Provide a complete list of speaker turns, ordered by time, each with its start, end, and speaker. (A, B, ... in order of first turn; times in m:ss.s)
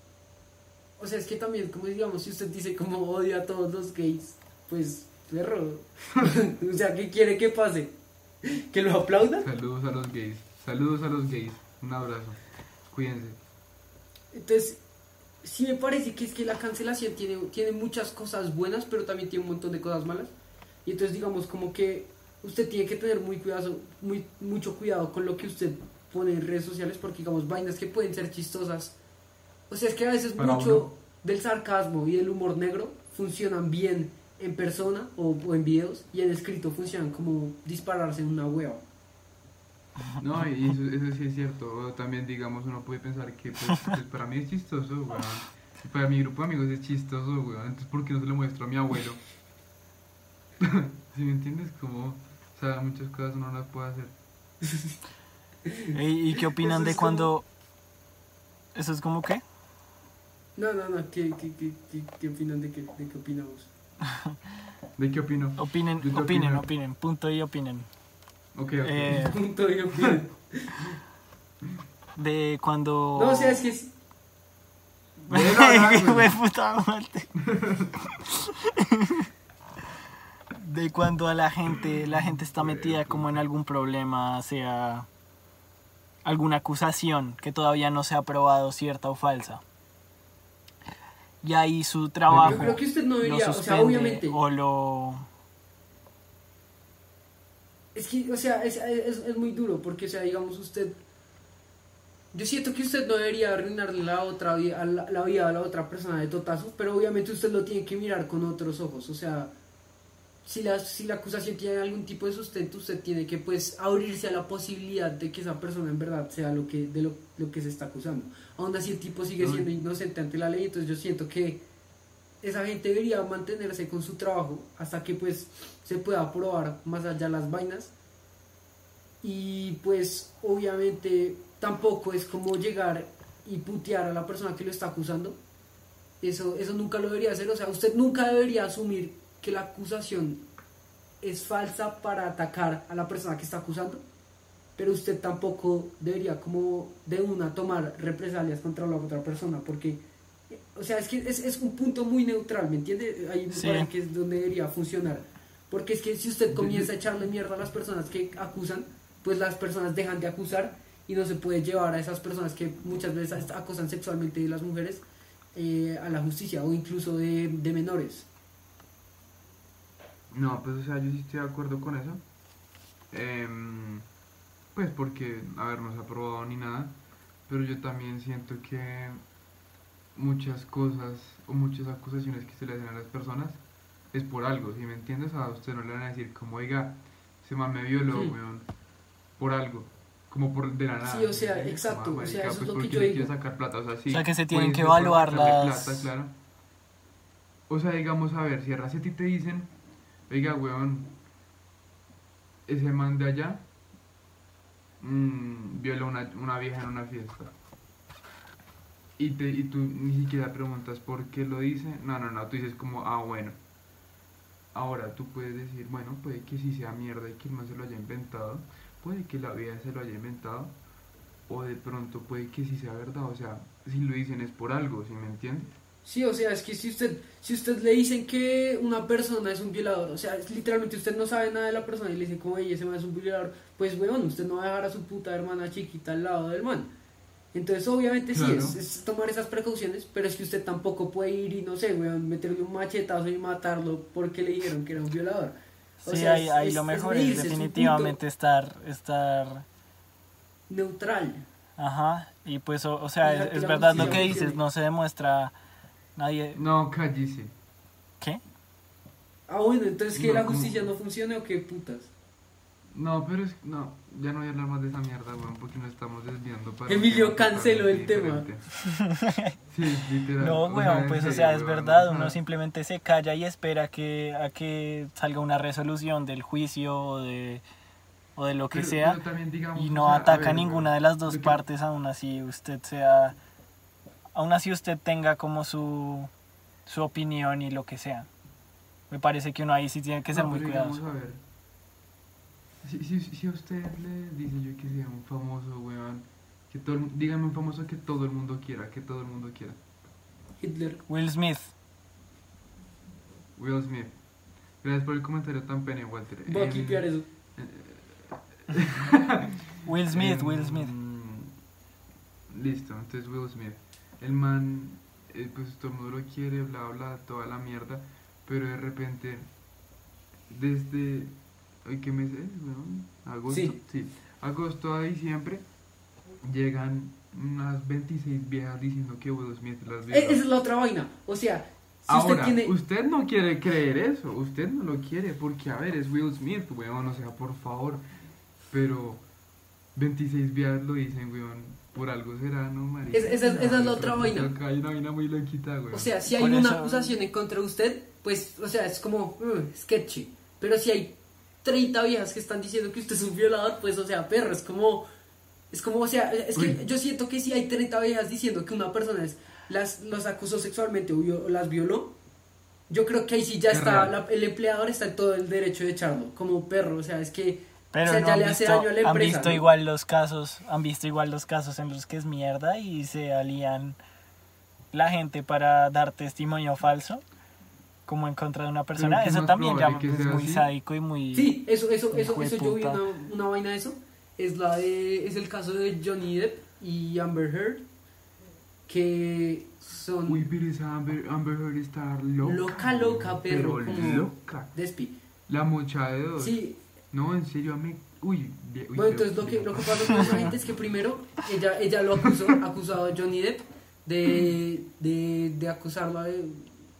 0:01.0-0:09.5 A
0:09.4-0:12.4 B
0:12.9-0:13.4 B
0:14.3-0:14.8 A
0:15.4-0:20.3 A
0:20.8-0:29.0 A
0:29.7-0:38.8 A
0:30.4-0:30.9 B
0:40.2-0:49.3 B
0:50.6-0:54.1 B
0:55.9-0:57.5 C
0:56.6-0:57.3 A
0:58.7-0:59.4 C
1:00.6-1:03.7 A
1:05.0-1:06.7 B
1:05.6-1:07.9 C
1:08.6-1:09.4 B
1:08.8-1:09.4 C
1:09.1-1:10.7 A
1:12.2-1:13.6 C
1:13.1-1:13.9 A
1:15.2-1:16.4 B
1:15.3-1:17.4 C
1:17.4-1:17.9 B
1:18.3-1:19.3 C
1:20.5-1:25.1 C
1:22.2-1:23.4 B
1:26.2-1:29.6 C
1:31.4-1:35.3 C
1:32.3-1:32.8 B
1:32.4-1:34.4 A
1:38.0-1:41.0 A
1:42.3-1:49.5 A
1:50.4-2:01.6 A
1:59.4-1:59.7 B
2:02.4-2:07.9 A
2:09.2-2:15.4 A
2:16.2-2:20.4 A
2:21.2-2:24.0 A
2:24.8-2:45.0 A
2:33.5-2:33.9 C
2:36.5-2:36.9 B
2:45.6-2:48.3 A
2:50.3-2:52.2 B
2:53.1-2:54.1 B
2:54.7-2:59.2 B
3:00.1-3:08.7 B
3:08.1-3:08.4 A
3:09.4-3:16.4 B
3:11.0-3:13.3 A
3:14.1-3:16.1 C
3:17.7-3:19.7 B
3:20.3-3:21.1 B
3:22.6-3:23.6 B
3:25.0-3:27.5 B
3:29.2-3:33.6 B
3:34.7-3:40.7 B
3:41.5-3:45.7 B
3:46.0-3:56.9 A
3:57.5-4:08.2 A
3:58.3-3:58.8 B
4:06.0-4:09.6 C
4:10.7-4:11.5 A
4:11.8-4:15.5 C
4:13.2-4:14.6 A
4:13.9-4:14.4 B
4:16.2-4:16.6 C
4:16.6-4:17.5 B
4:19.5-4:22.1 A
4:20.1-4:20.8 B
4:22.9-4:28.7 B
4:26.9-4:28.4 A
4:28.8-4:29.6 C
4:29.7-4:32.4 B
4:30.4-4:37.6 C
4:38.4-4:39.2 C
4:38.7-4:41.6 B
4:39.7-4:43.4 C
4:44.3-4:46.3 C
4:46.9-4:48.3 C
4:49.1-4:51.0 C
4:50.3-4:51.4 B
4:52.8-4:59.8 B
5:00.6-5:01.0 A
5:01.1-5:01.7 C
5:03.6-5:04.2 B
5:04.8-5:09.5 B
5:06.4-5:07.2 A
5:09.8-5:10.9 C
5:10.1-5:11.6 B
5:12.5-5:19.5 B
5:20.5-5:25.7 B
5:23.5-5:23.8 A
5:26.4-5:30.4 B
5:30.1-5:32.7 A
5:32.1-5:38.0 B
5:38.7-5:39.3 B
5:40.0-5:46.1 B
5:43.1-5:44.5 A
5:45.9-5:55.1 A
5:46.4-5:47.1 C
5:55.7-6:02.1 A
6:02.9-6:09.7 A
6:03.7-6:04.1 B
6:07.9-6:14.0 C
6:14.9-6:17.2 C
6:18.1-6:21.6 C
6:18.9-6:20.7 B
6:21.3-6:27.9 A
6:22.1-6:23.0 C
6:28.9-6:30.4 A
6:30.3-6:34.8 B
6:32.4-6:35.1 A
6:35.5-6:36.6 B
6:36.4-6:36.8 A
6:37.1-6:40.6 B
6:39.0-6:46.7 A